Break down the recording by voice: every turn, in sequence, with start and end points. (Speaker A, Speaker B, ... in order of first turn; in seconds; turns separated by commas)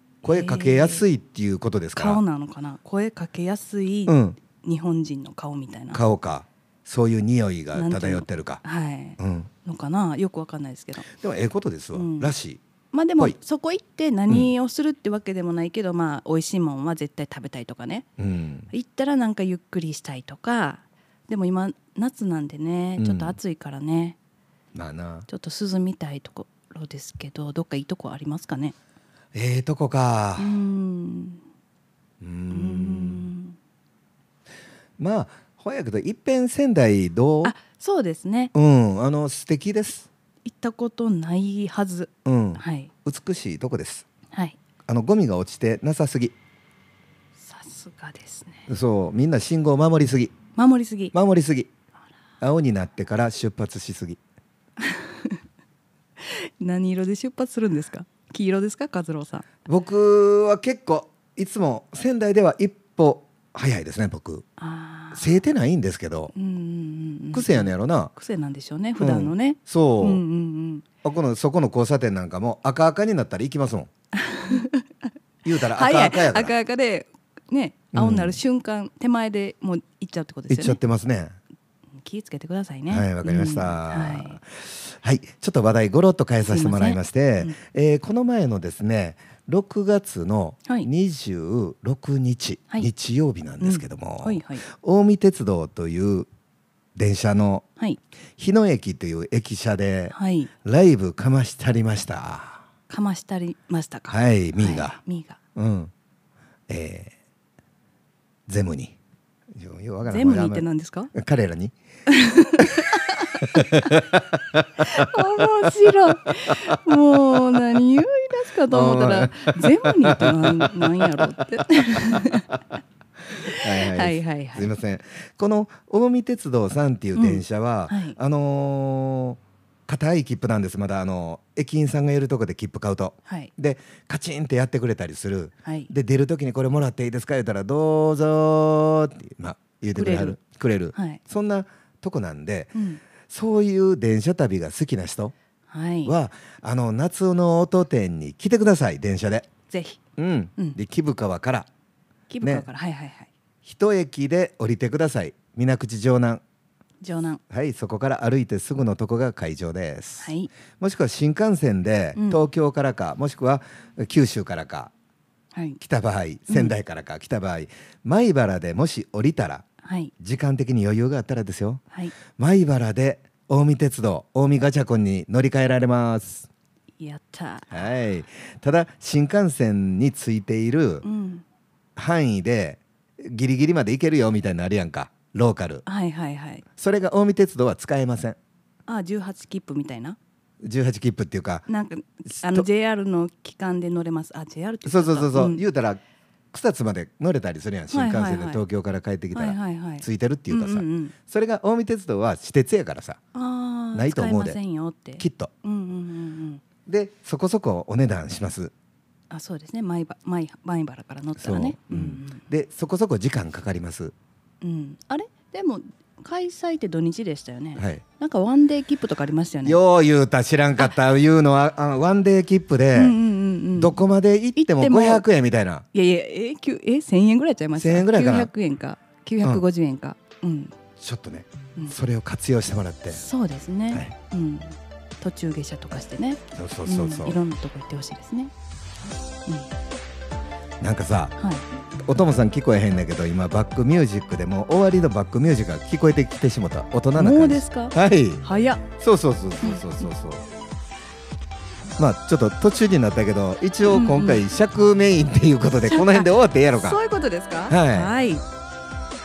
Speaker A: 0.2-1.1, Speaker B: 0.2-2.2, Speaker A: 1.9-6.0, Speaker B: 4.1-4.4, Speaker B: 5.9-8.6, Speaker A: 7.7-11.1, Speaker B: 9.2-9.5, Speaker B: 11.1-12.6, Speaker A: 11.9-12.3, Speaker A: 12.9-18.1, Speaker B: 18.2-18.7, Speaker A: 18.7-24.2, Speaker B: 23.0-23.4, Speaker B: 24.7-25.3, Speaker A: 25.3-28.8, Speaker B: 29.3-30.6, Speaker A: 30.4-31.4, Speaker B: 32.2-33.3, Speaker A: 32.5-33.6, Speaker B: 35.0-37.5, Speaker A: 37.4-38.5, Speaker B: 38.5-40.1, Speaker A: 40.5-42.9, Speaker B: 42.2-44.1, Speaker B: 44.9-46.3, Speaker A: 47.4-48.6, Speaker B: 48.7-50.3, Speaker A: 50.5-51.1, Speaker B: 51.1-51.7, Speaker B: 52.4-54.2, Speaker A: 54.8-55.4, Speaker A: 56.2-59.5, Speaker B: 59.7-64.5, Speaker A: 64.6-65.4, Speaker B: 65.1-66.3, Speaker A: 66.3-70.8, Speaker B: 67.3-68.1, Speaker B: 69.0-70.2, Speaker B: 71.0-73.9, Speaker A: 74.1-74.9, Speaker B: 75.5-76.5, Speaker A: 75.5-80.8, Speaker B: 77.9-78.4, Speaker B: 80.5-81.4, Speaker A: 82.0-84.4, Speaker B: 82.9-96.3, Speaker A: 86.4-87.6, Speaker A: 93.6-94.6, Speaker B: 97.0-97.7, Speaker B: 98.4-102.6, Speaker A: 100.1-100.5, Speaker A: 102.9-105.4, Speaker B: 104.1-105.0, Speaker B: 105.6-105.9, Speaker B: 106.7-107.1, Speaker B: 108.5-109.0, Speaker B: 109.5-111.7, Speaker A: 110.1-111.1, Speaker A: 112.1-113.9, Speaker B: 113.6-114.7, Speaker A: 114.8-122.6, Speaker B: 118.7-122.2, Speaker A: 123.4-124.7, Speaker B: 123.5-145.3, Speaker A: 127.2-128.2, Speaker A: 133.2-133.5, Speaker A: 135.6-135.9, Speaker A: 139.9-140.4, Speaker A: 140.9-141.2, Speaker A: 142.7-143.0, Speaker A: 145.7-146.1, Speaker B: 146.1-149.5, Speaker A: 149.7-150.0, Speaker B: 150.2-151.7, Speaker A: 152.3-153.3, Speaker B: 152.4-152.7, Speaker B: 153.7-156.4, Speaker A: 157.0-157.4, Speaker B: 157.5-164.9, Speaker A: 160.2-160.5, Speaker A: 162.2-162.5, Speaker A: 165.5-165.8, Speaker B: 165.8-169.7, Speaker A: 166.5-166.8, Speaker A: 169.8-170.1, Speaker B: 170.2-171.8, Speaker B: 172.4-176.5, Speaker A: 177.0-177.9, Speaker B: 177.7-181.1, Speaker A: 181.0-181.4, Speaker B: 182.0-185.8, Speaker A: 185.9-186.6, Speaker B: 186.8-188.4, Speaker A: 188.9-190.2, Speaker B: 190.6-191.7, Speaker A: 191.7-195.6, Speaker B: 192.3-192.7, Speaker B: 194.9-196.0, Speaker B: 196.5-203.2, Speaker A: 197.9-198.6, Speaker A: 199.3-201.2, Speaker A: 203.3-206.6, Speaker B: 203.9-204.6, Speaker B: 205.2-205.5, Speaker B: 206.9-208.7, Speaker A: 209.3-212.4, Speaker B: 211.4-214.1, Speaker A: 214.6-219.8, Speaker B: 217.8-218.0, Speaker B: 219.7-223.2, Speaker A: 222.9-224.0, Speaker B: 223.8-225.9, Speaker A: 224.6-225.2, Speaker A: 225.9-230.8, Speaker B: 227.8-228.5, Speaker B: 231.0-233.2, Speaker A: 233.1-238.5, Speaker B: 236.6-237.4, Speaker B: 240.8-241.3, Speaker A: 241.4-241.7, Speaker B: 242.1-248.4, Speaker A: 247.2-248.9, Speaker B: 249.0-250.4, Speaker A: 249.6-250.1, Speaker B: 252.0-257.0, Speaker A: 253.8-254.4, Speaker A: 255.8-258.4, Speaker B: 257.7-258.1